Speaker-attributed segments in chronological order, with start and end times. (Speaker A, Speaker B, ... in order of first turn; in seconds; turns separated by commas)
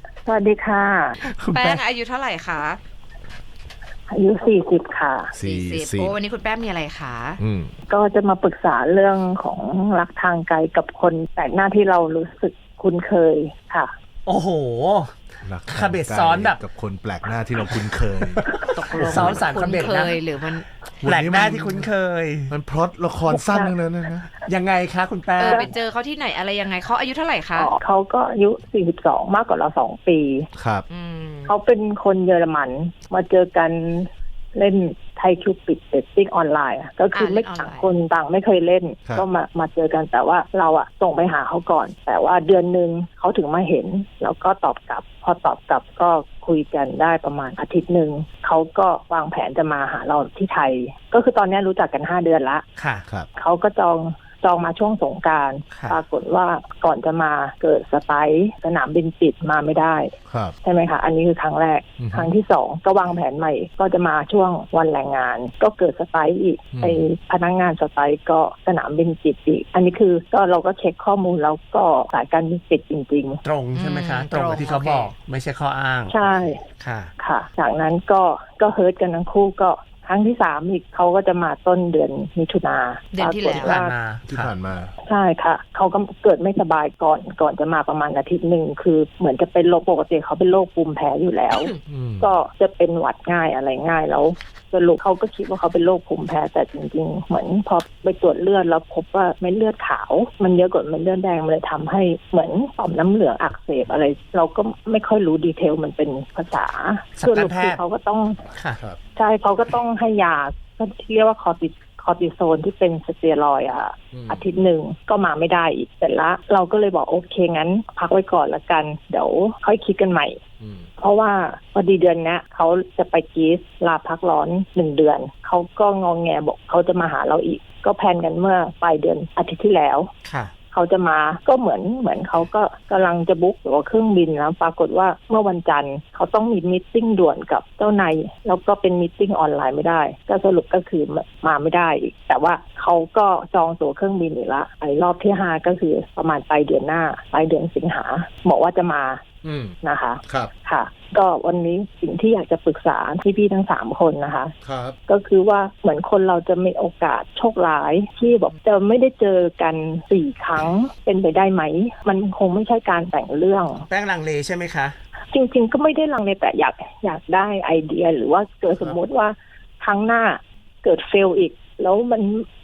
Speaker A: 0.2-1.2, Speaker B: 1.3-2.8, Speaker C: 1.4-1.8, Speaker A: 4.1-5.3, Speaker D: 5.3-6.2, Speaker B: 5.4-7.4, Speaker D: 7.4-7.7, Speaker A: 7.9-13.9, Speaker C: 14.3-15.2, Speaker D: 15.4-18.4, Speaker C: 15.7-16.6, Speaker C: 17.7-20.2, Speaker B: 18.7-20.7, Speaker D: 19.0-19.4, Speaker D: 21.0-21.9, Speaker C: 21.0-22.5, Speaker D: 22.5-24.2, Speaker A: 23.5-23.8, Speaker C: 24.5-25.7, Speaker B: 25.4-27.7, Speaker A: 25.4-25.7, Speaker A: 27.6-30.5, Speaker D: 30.6-30.9, Speaker B: 30.9-31.5, Speaker A: 31.5-52.6, Speaker B: 37.1-37.9, Speaker C: 52.8-53.0, Speaker A: 53.4-60.1, Speaker C: 55.7-56.0, Speaker D: 60.3-60.5, Speaker A: 60.6-73.4, Speaker D: 62.0-62.3, Speaker D: 66.7-67.1, Speaker C: 73.4-76.2, Speaker B: 73.8-75.1, Speaker A: 76.1-76.6, Speaker C: 76.8-77.1, Speaker A: 77.2-83.9, Speaker B: 83.1-83.8, Speaker C: 83.5-84.5, Speaker D: 84.3-84.9, Speaker A: 85.1-108.4, Speaker D: 91.8-92.3, Speaker C: 107.2-107.8, Speaker A: 109.2-120.4, Speaker D: 114.1-114.5, Speaker D: 120.6-120.9, Speaker A: 121.0-130.1, Speaker C: 130.3-130.5, Speaker A: 130.7-149.2, Speaker D: 149.4-149.8, Speaker A: 149.8-154.6, Speaker D: 154.6-155.0, Speaker A: 155.1-163.9, Speaker C: 163.9-164.9, Speaker A: 165.3-172.5